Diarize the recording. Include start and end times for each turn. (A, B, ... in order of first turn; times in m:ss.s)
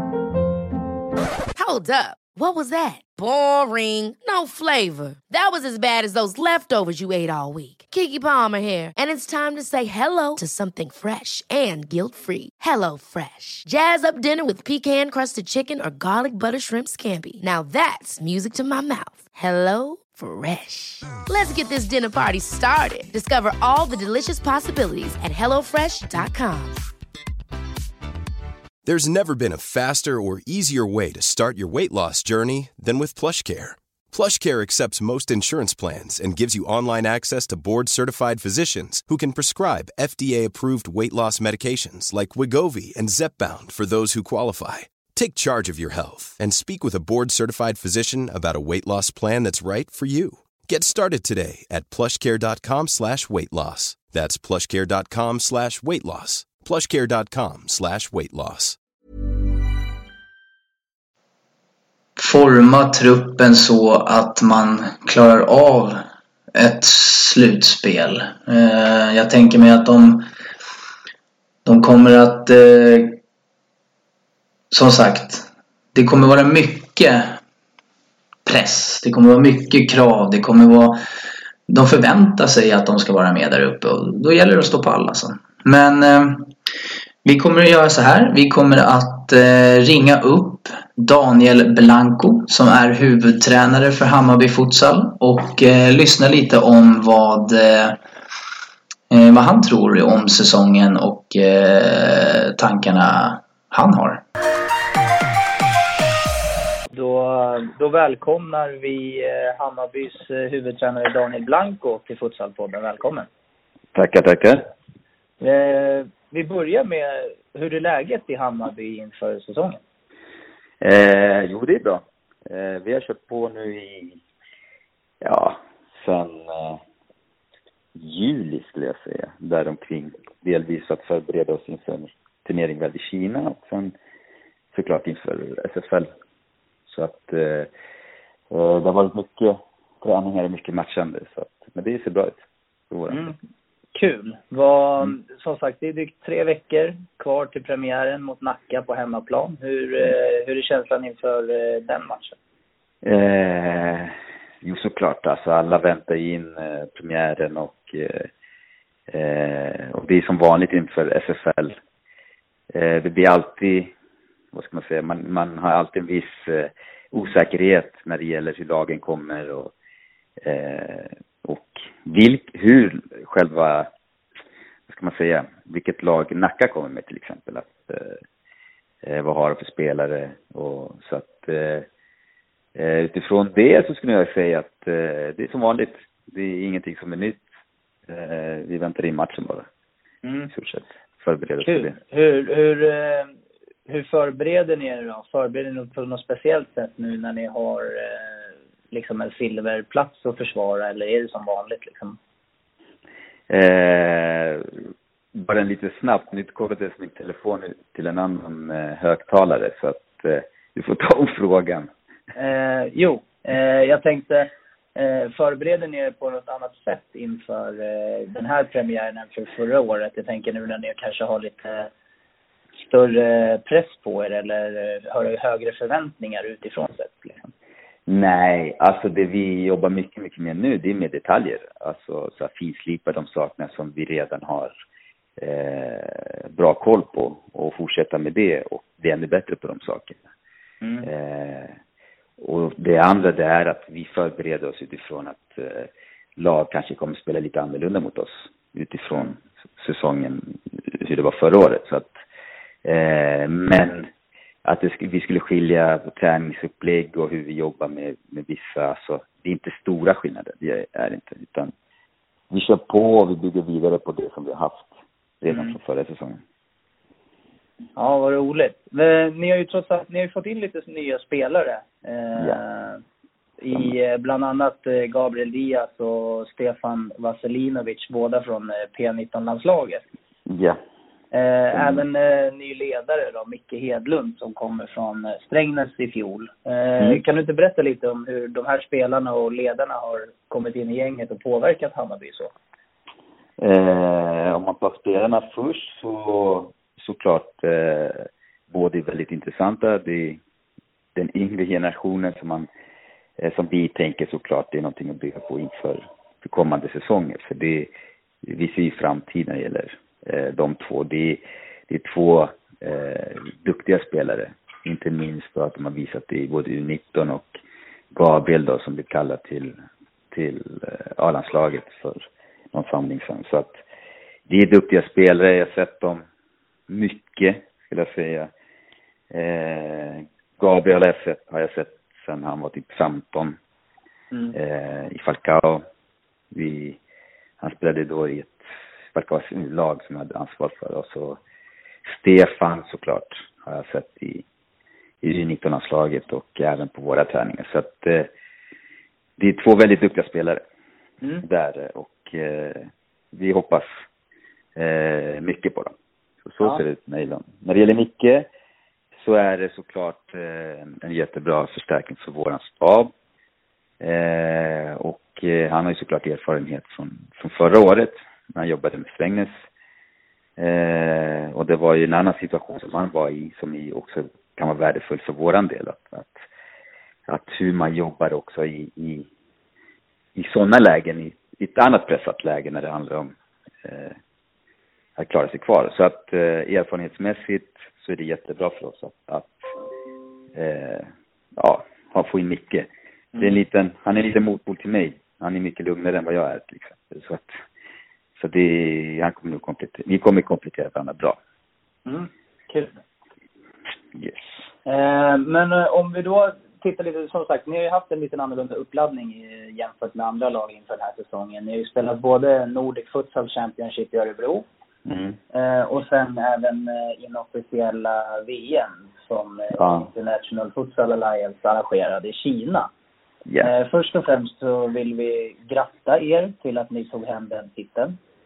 0:01.6-0:26.8 A
0:28.8-0:58.8 B
1:02.2-1:10.3 C
1:11.6-1:13.2 C
1:14.7-1:17.4 C
1:18.5-1:21.0 C
1:21.7-1:26.5 C
1:27.2-1:38.0 C
1:39.1-1:44.2 C
1:46.9-1:53.3 D
1:54.0-1:54.6 E
1:55.4-1:59.8 D
2:00.8-2:04.2 E
2:05.2-2:06.8 E
2:08.0-2:14.0 E
2:14.7-2:16.1 E
2:16.9-2:17.7 E
2:18.5-2:23.3 E
2:23.1-2:23.4 D
2:24.0-2:32.4 D
2:33.0-2:38.3 E
2:39.1-2:41.8 E
2:42.7-2:43.9 E
2:44.5-2:49.7 E
2:50.4-2:53.9 E
2:54.9-2:58.2 E
2:59.0-3:01.9 E
3:02.8-3:07.4 E
3:08.1-3:09.7 E
3:10.2-3:10.5 D
3:10.5-3:12.0 E
3:11.6-3:13.3 D
3:13.9-3:22.2 D
3:23.5-3:24.7 E
3:25.3-3:31.9 E
3:32.4-3:41.9 D
3:42.8-3:47.4 D
3:48.1-3:54.8 E
3:55.4-4:00.2 E
4:00.8-4:01.1 D
4:01.0-4:01.8 E
4:02.4-4:12.2 E
4:12.8-4:14.1 E
4:14.6-4:21.7 E
4:22.5-4:24.9 E
4:25.4-4:26.4 E
4:28.0-4:33.0 D
4:33.6-4:40.0 D
4:40.5-4:40.8 E
4:41.3-4:52.5 D
4:41.7-4:42.0 E
4:53.6-5:00.4 E
5:01.2-5:02.7 E
5:03.4-5:07.9 E
5:08.4-5:17.5 E
5:18.1-5:19.8 E
5:20.3-5:23.8 E
5:24.5-5:26.2 E
5:26.9-5:28.5 E
5:29.3-5:33.6 E
5:34.5-5:35.8 E
5:36.5-5:37.0 E
5:37.6-5:38.6 E
5:39.1-5:41.4 E
5:42.1-5:44.4 E
5:45.2-5:48.3 E
5:49.4-5:50.6 E
5:51.4-5:53.9 E
5:54.8-5:55.9 E
5:56.4-5:58.5 E
5:59.2-6:03.1 E
6:04.0-6:09.6 E
6:10.6-6:16.4 E
6:17.3-6:19.3 E
6:20.4-6:24.2 E
6:25.2-6:29.6 E
6:30.6-6:37.5 E
6:33.3-6:33.6 D
6:38.4-6:41.4 E
6:42.1-6:43.0 D
6:44.2-6:44.5 E
6:44.9-6:54.7 D
6:55.1-6:55.4 E
6:55.5-7:02.9 D
6:59.7-7:00.1 E
7:03.5-7:03.7 E
7:03.6-7:08.2 D